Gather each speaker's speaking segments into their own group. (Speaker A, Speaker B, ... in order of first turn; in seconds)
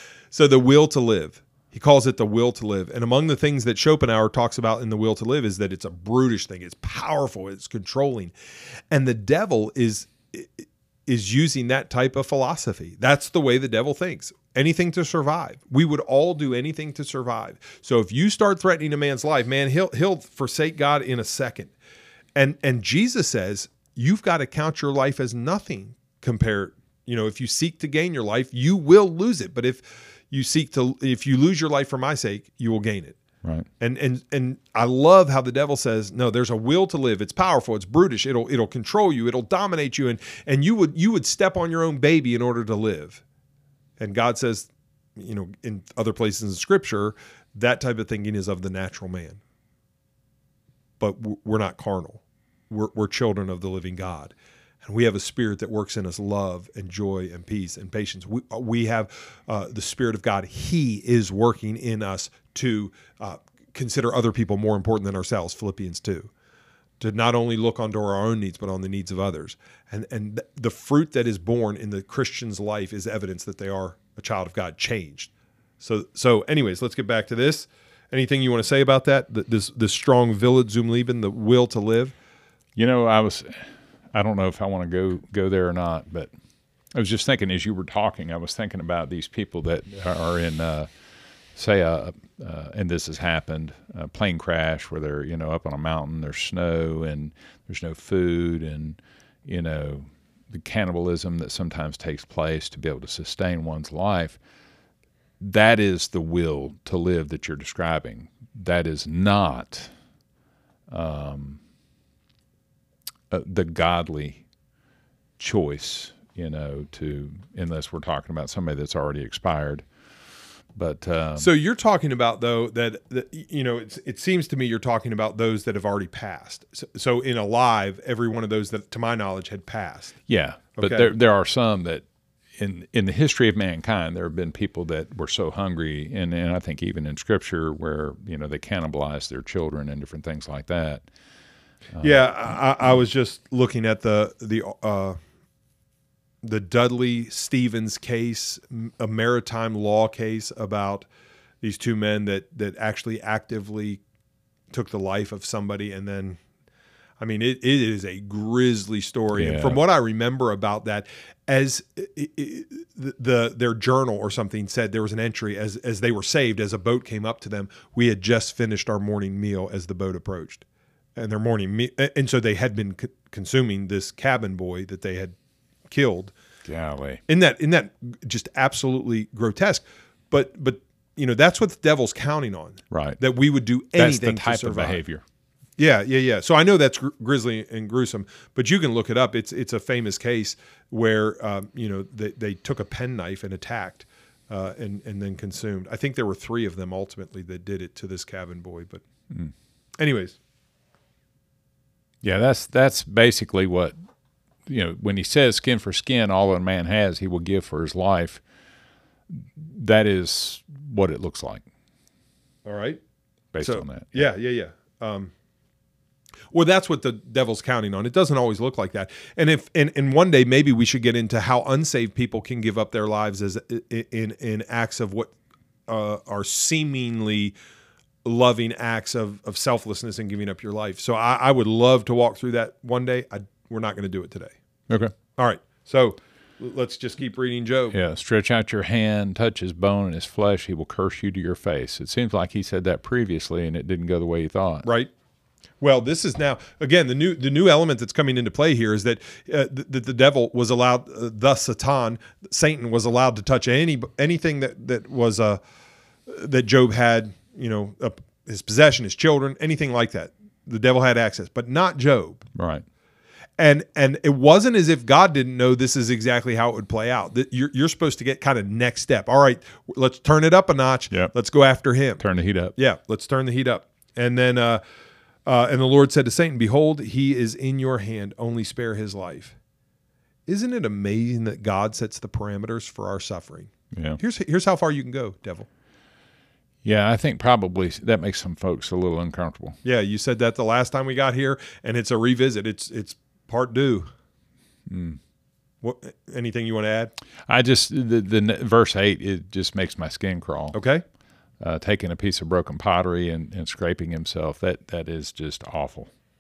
Speaker A: 0.3-8.3, 8.9-21.7, 22.4-33.2, 33.8-43.2, 44.0-49.4, 51.0-66.3, 67.0-82.2, 121.4-130.2, 130.8-131.1, 142.0-145.2, 146.4-151.1, 151.6-154.0, 154.7-156.4, 157.2-170.6, 171.2-175.3, 175.9-176.3, 177.3-185.0, 185.8-199.0, 200.0-200.4, 212.7-213.0, 213.6-215.3, 216.5-225.3, 225.9-227.5, 228.2-234.5, 235.4-238.0, 244.8-245.1, 245.8-255.6, 256.3-262.4, 263.6-272.2, 272.8-274.8, 275.5-279.6, 280.5-285.7, 289.8-294.1, 295.8-297.1, 300.7-301.0
Speaker B: 82.8-86.3, 87.0-90.9, 91.5-104.4, 105.4-109.9, 110.9-111.6, 113.3-114.4, 115.4-119.9, 120.8-121.5, 130.3-132.1, 132.6-141.1, 141.9-142.2, 159.3-159.8, 176.7-177.2, 182.9-183.2, 184.0-185.2, 202.2-203.9, 204.7-208.4, 209.3-211.7, 213.5-214.3, 237.9-244.9, 262.6-262.9, 272.2-272.7, 283.9-284.2, 286.8-289.8, 294.9-295.2, 297.5-300.8, 301.6-306.1